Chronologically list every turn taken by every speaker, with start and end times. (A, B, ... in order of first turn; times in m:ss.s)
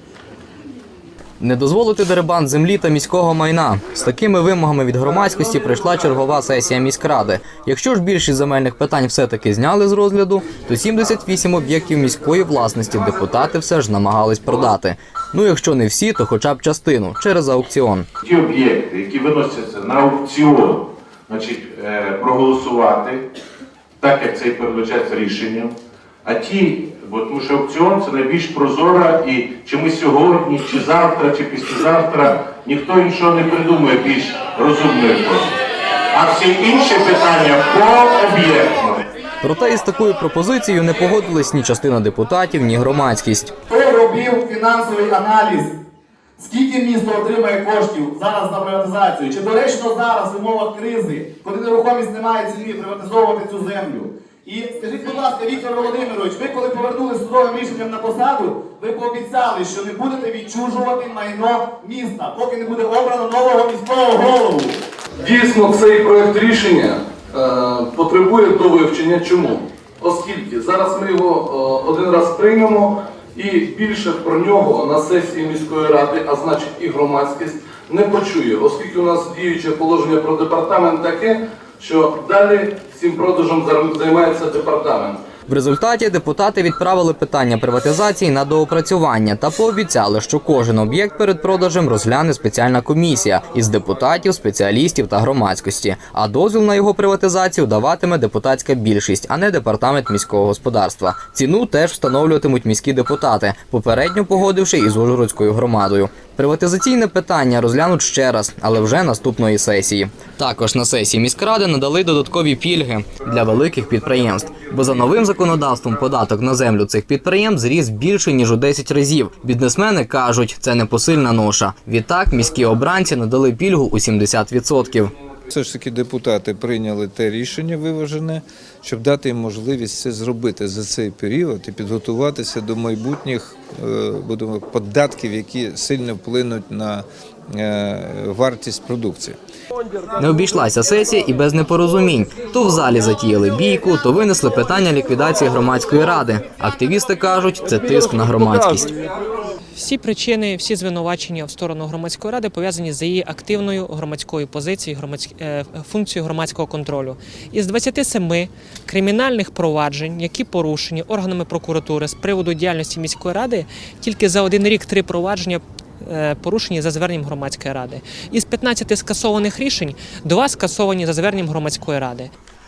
0:01.4-0:18.1 A
0:18.2-0:23.2 B
0:24.0-0:25.7 B
0:26.2-0:35.5 B
0:36.1-0:39.0 B
0:39.4-0:43.5 A
0:43.7-0:45.7 C
0:46.4-1:04.8 C
1:05.2-1:25.2 D
1:25.5-2:05.1 A
2:05.5-2:19.4 E
2:20.2-2:28.9 A
2:29.8-2:52.3 F